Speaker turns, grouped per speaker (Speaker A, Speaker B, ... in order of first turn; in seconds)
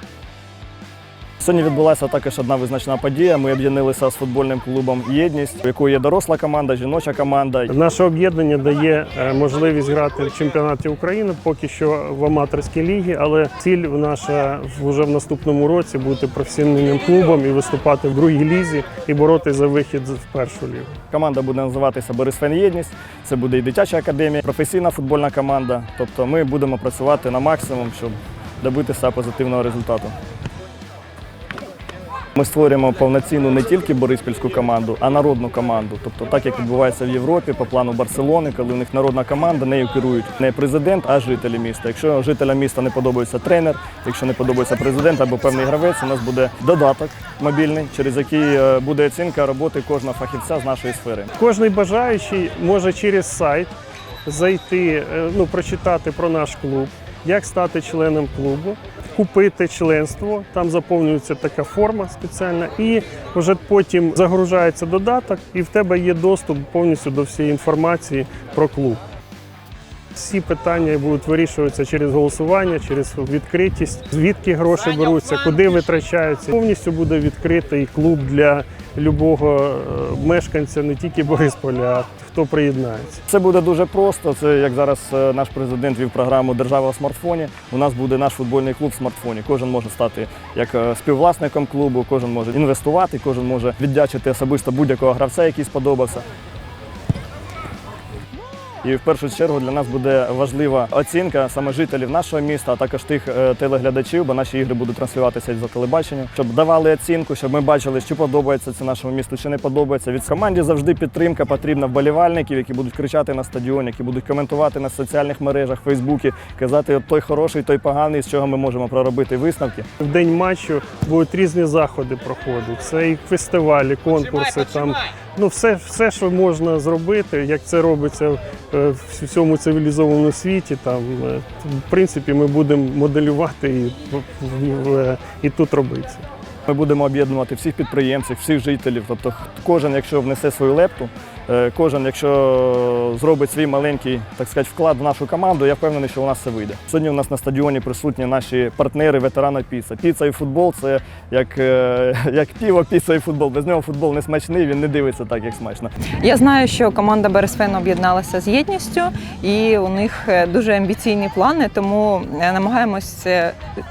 Speaker A: 1.4-7.7, 21.1-30.1, 32.4-51.3, 83.3-96.2, 98.8-119.9, 136.7-155.9
Speaker B: 7.7-20.9, 51.4-53.7, 54.3-69.0, 70.1-83.2, 120.0-136.2
Speaker C: 156.2-163.6